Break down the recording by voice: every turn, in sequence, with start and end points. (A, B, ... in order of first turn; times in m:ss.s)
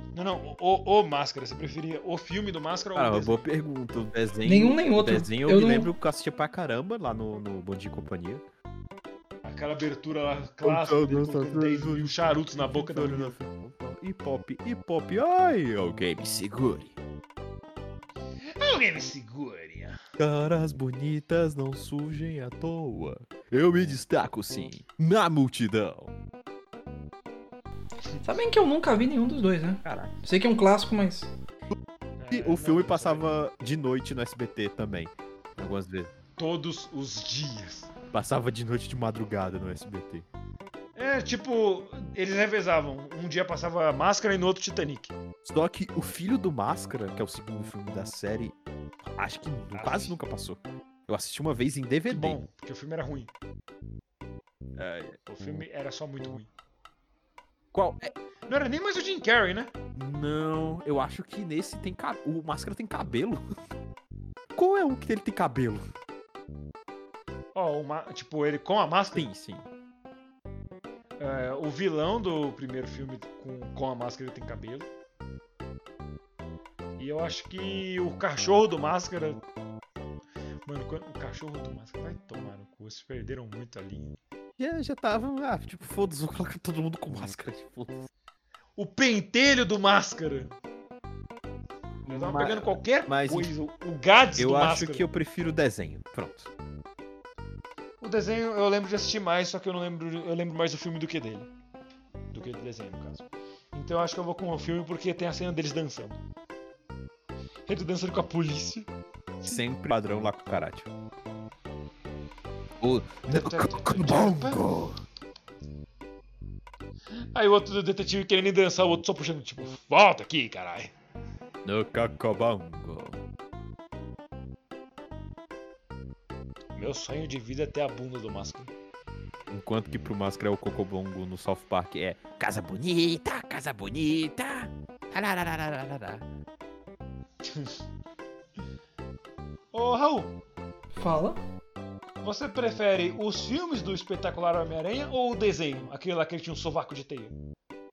0:00.2-0:03.4 A
0:03.0-0:08.4 B
0:04.5-0:05.9 C
0:09.4-0:13.4 A
0:10.6-0:17.0 B
0:18.6-0:20.0 A
0:20.2-0:26.1 B
0:28.2-0:31.3 C
0:29.8-0:30.1 B
0:32.2-0:33.3 A
0:32.3-0:36.1 B
0:36.4-0:37.9 A
0:38.1-0:40.3 B
0:41.0-0:45.1 A
0:45.4-0:52.4 B
0:49.7-0:50.2 A
0:52.1-0:53.3 A
0:54.8-0:55.2 B
0:55.3-0:56.5 A
0:57.7-0:58.1 B
0:58.5-0:59.7 A
1:00.0-1:03.4 B
1:04.6-1:05.9 B
1:07.6-1:09.3 A
1:09.1-1:09.7 B
1:11.2-1:14.9 A
1:17.0-1:19.4 A
1:20.7-1:24.2 A
1:24.6-1:28.1 B
1:28.8-1:30.5 A
1:32.0-1:33.5 B
1:32.1-1:35.0 A
1:34.4-1:36.5 B
1:38.0-1:41.5 A
1:42.3-1:46.2 A
1:47.7-1:48.9 A
1:49.4-1:50.9 B
1:52.8-1:55.0 B
1:53.3-1:54.6 A
1:57.4-2:00.9 A
2:01.6-2:03.2 B
2:06.8-2:08.7 A
2:09.5-2:16.2 B
2:17.4-2:17.8 A
2:19.7-2:20.4 A
2:20.9-2:21.4 C
2:22.2-2:27.3 A